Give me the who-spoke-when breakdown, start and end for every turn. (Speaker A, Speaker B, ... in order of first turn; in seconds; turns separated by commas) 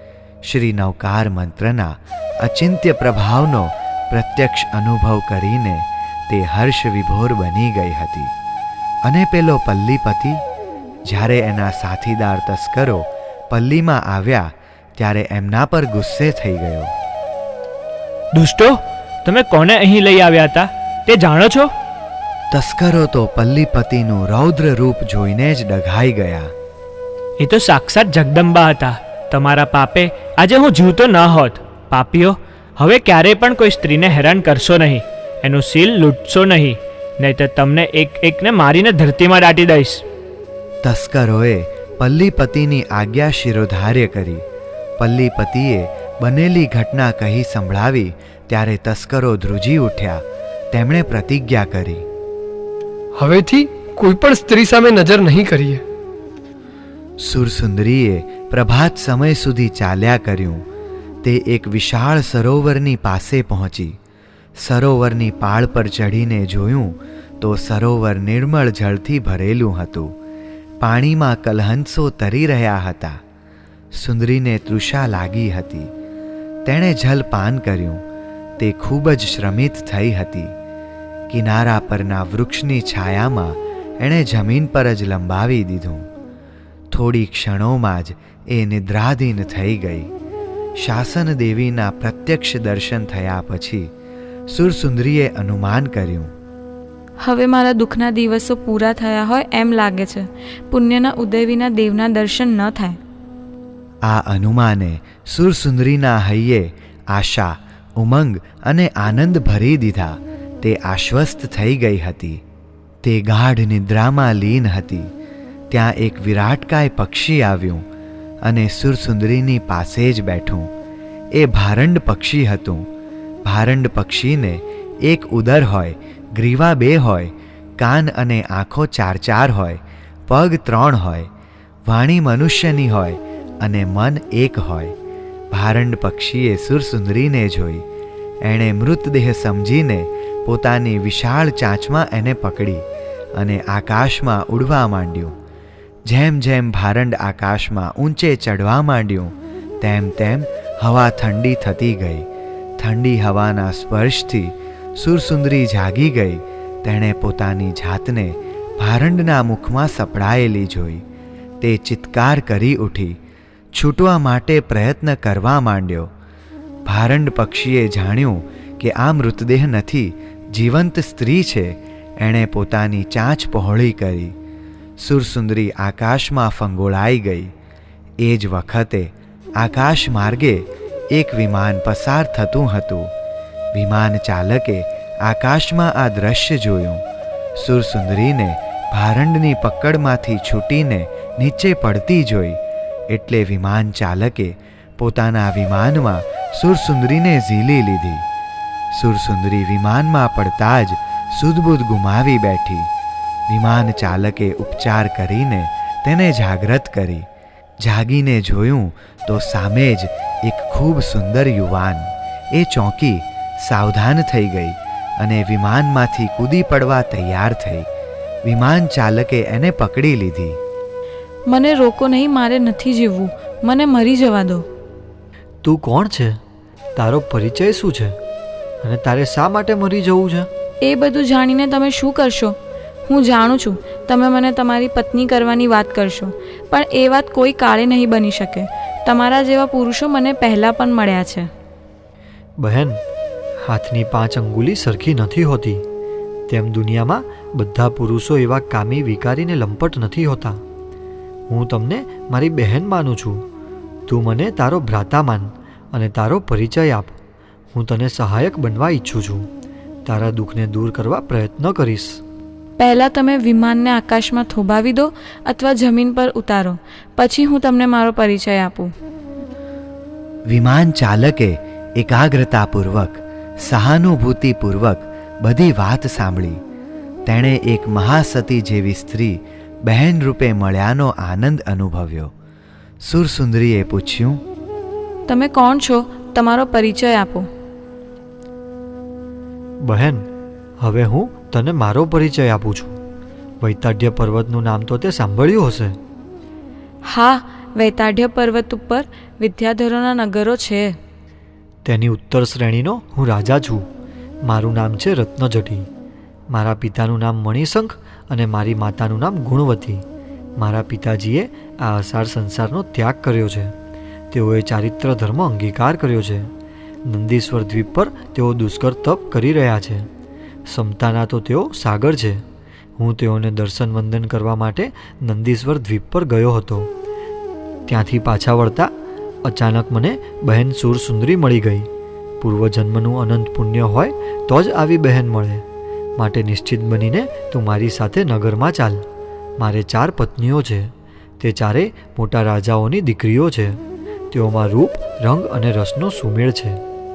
Speaker A: 0.4-8.3, Speaker A: 9.1-10.4, Speaker A: 11.1-16.9, Speaker B: 18.3-21.7, Speaker A: 22.5-26.5, Speaker B: 27.4-40.0, Speaker A: 40.8-44.4, Speaker A: 45.0-52.0, Speaker C: 53.2-55.8, Speaker A: 57.2-60.6, Speaker A: 61.2-64.0, Speaker A: 64.6-70.1, Speaker A: 70.8-73.2, Speaker A: 73.9-75.9, Speaker A: 76.6-78.0, Speaker A: 78.6-80.5, Speaker A: 81.3-86.1, Speaker A: 86.9-90.1, Speaker A: 90.8-93.9, Speaker A: 94.5-96.3, Speaker D: 97.2-103.0, Speaker A: 104.0-112.4, Speaker A: 113.0-115.1, Speaker A: 115.7-117.8, Speaker A: 118.4-120.7, Speaker A: 121.3-122.9, Speaker A: 123.4-131.3, Speaker A: 131.9-134.9, Speaker A: 135.5-137.8, Speaker A: 138.4-142.8, Speaker A: 143.3-145.3, Speaker A: 146.1-152.3, Speaker A: 152.8-161.0, Speaker A: 161.6-163.2, Speaker A: 163.7-166.1, Speaker A: 166.8-174.3, Speaker A: 175.0-177.5, Speaker A: 178.2-183.1, Speaker A: 183.7-187.0, Speaker A: 187.6-198.2, Speaker A: 198.9-202.9, Speaker A: 203.5-207.2, Speaker A: 207.8-217.9, Speaker A: 218.4-220.6, Speaker D: 221.5-224.6, Speaker E: 225.6-226.4, Speaker E: 226.9-228.2, Speaker E: 228.8-230.5, Speaker D: 230.8-241.5, Speaker E: 242.6-243.0, Speaker E: 243.6-245.8, Speaker E: 246.5-250.6, Speaker E: 251.5-253.4, Speaker E: 254.1-257.2, Speaker E: 257.7-259.5, Speaker E: 260.1-262.2, Speaker D: 262.8-268.9, Speaker A: 270.5-276.6, Speaker A: 277.2-282.3, Speaker A: 283.0-284.4, Speaker D: 285.3-287.5, Speaker E: 289.8-290.3, Speaker E: 290.8-292.9, Speaker E: 293.6-296.0, Speaker D: 297.0-301.0, Speaker E: 301.8-303.9, Speaker E: 304.4-305.9, Speaker E: 306.5-310.0, Speaker E: 310.6-313.7, Speaker E: 314.3-316.5, Speaker E: 317.1-320.1, Speaker E: 320.7-322.4, Speaker E: 323.0-326.9, Speaker E: 327.9-328.9, Speaker E: 329.4-331.9, Speaker E: 332.4-335.6, Speaker E: 336.2-339.0, Speaker E: 339.6-343.8, Speaker E: 344.3-346.8